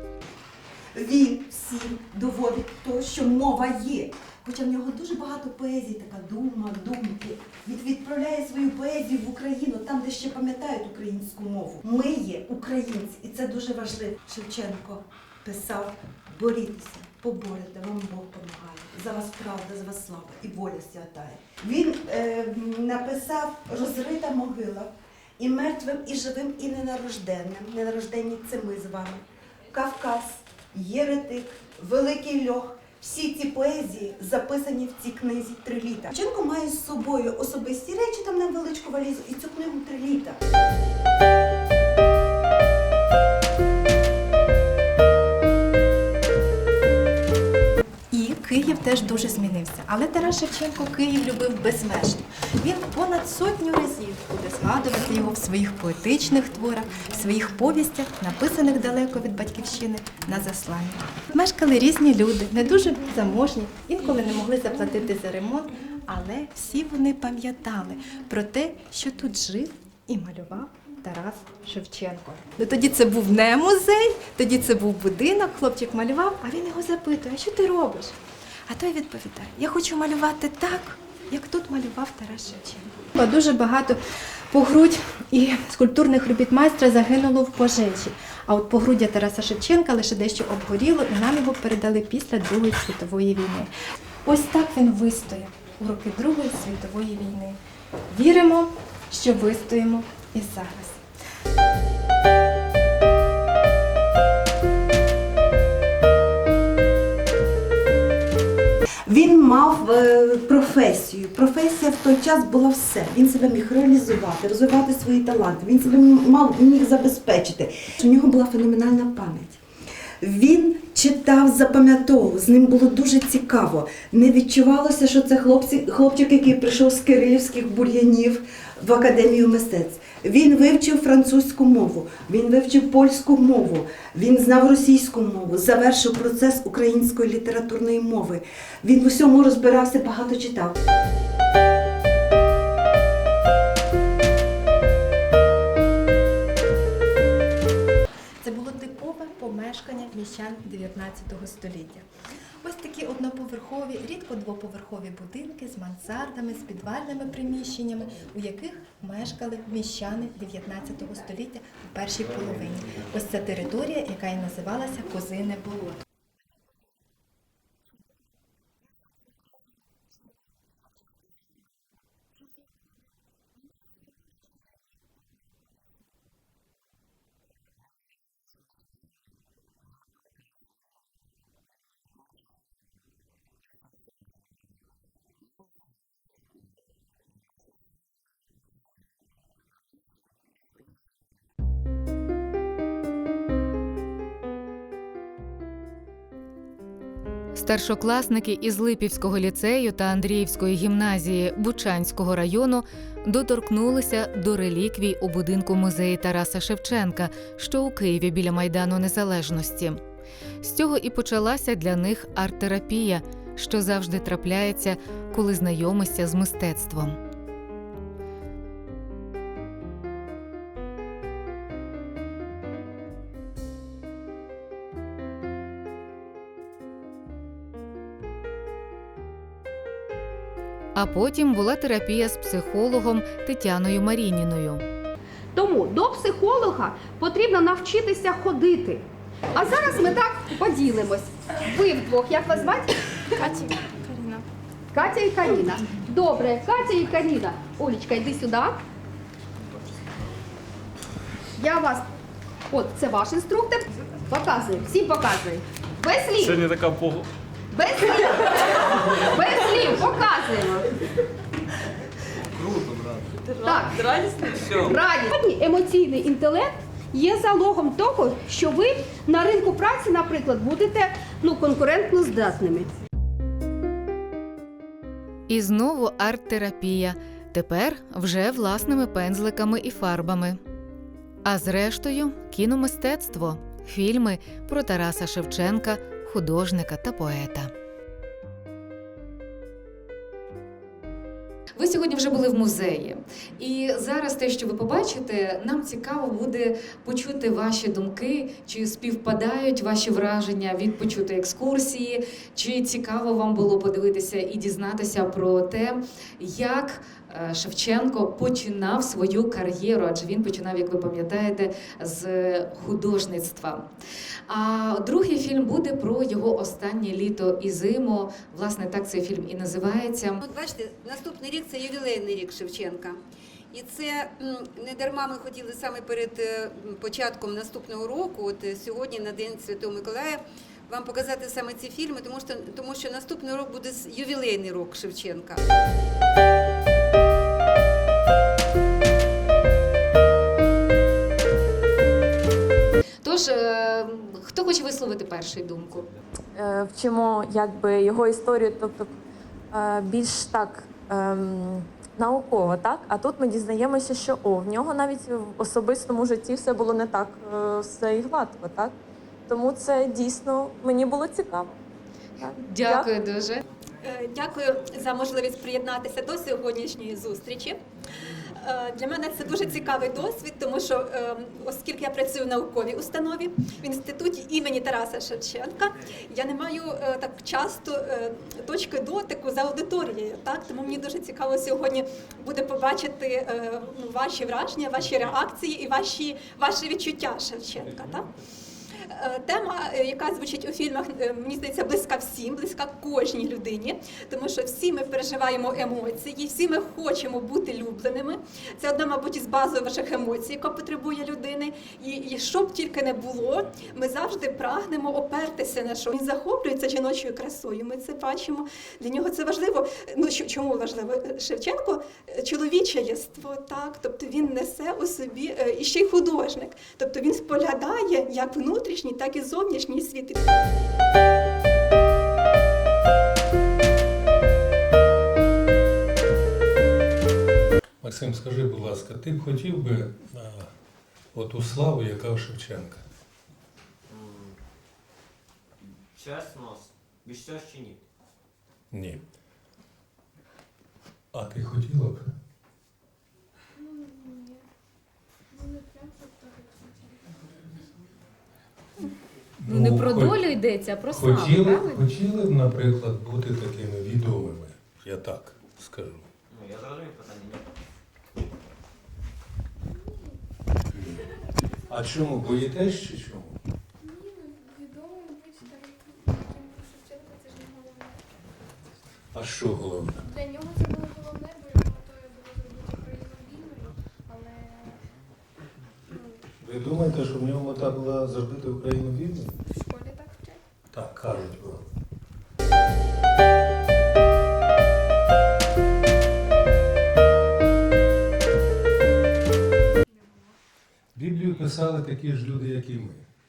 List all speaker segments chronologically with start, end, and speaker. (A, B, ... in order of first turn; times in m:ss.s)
0:01.0-0:40.4 A
0:48.1-1:18.2 B
1:18.7-1:24.0 B
1:24.5-1:33.7 B
1:34.2-1:37.6 B
1:38.1-1:41.0 B
1:49.1-1:59.6 A
2:00.2-2:20.8 A
2:28.4-2:32.1 B
2:32.6-2:46.0 B
3:17.5-3:30.0 C
3:30.6-3:37.2 C
3:51.0-3:54.8 C
3:55.6-4:03.6 D
4:03.4-4:04.4 E
4:04.9-4:08.8 D
4:11.6-4:12.1 D
4:12.7-4:16.8 D
4:17.7-4:20.9 D
4:23.6-4:32.9 D
4:35.5-4:40.6 C
4:41.4-4:47.7 C
4:51.8-5:13.9 C
5:14.5-5:20.4 C
5:20.4-5:23.1 F
5:23.7-5:35.6 F
5:43.2-5:46.1 C
5:46.5-5:49.2 G
5:49.7-5:59.0 G
5:59.5-6:01.8 G
6:02.4-6:03.1 G
6:02.6-6:03.6 C
6:04.0-6:07.8 E
6:08.6-6:28.3 E
6:29.1-7:00.4 E
7:08.0-7:10.7 H
7:11.3-7:13.0 H
7:14.1-7:14.6 I
7:16.2-7:18.0 I
7:18.9-7:19.2 H
7:21.3-7:22.3 H
7:23.8-7:24.6 J
7:25.5-7:27.2 J
7:29.6-7:30.4 H
7:29.7-7:32.0 C
7:31.1-7:36.3 H
7:36.5-7:37.7 I
7:40.9-7:41.3 H
7:41.9-7:43.6 H
7:44.0-7:48.2 J
7:49.3-7:50.3 H
7:50.3-7:55.0 J
7:56.6-7:59.6 H
7:59.7-8:00.6 J
8:00.9-8:01.8 H
8:11.2-8:13.3 H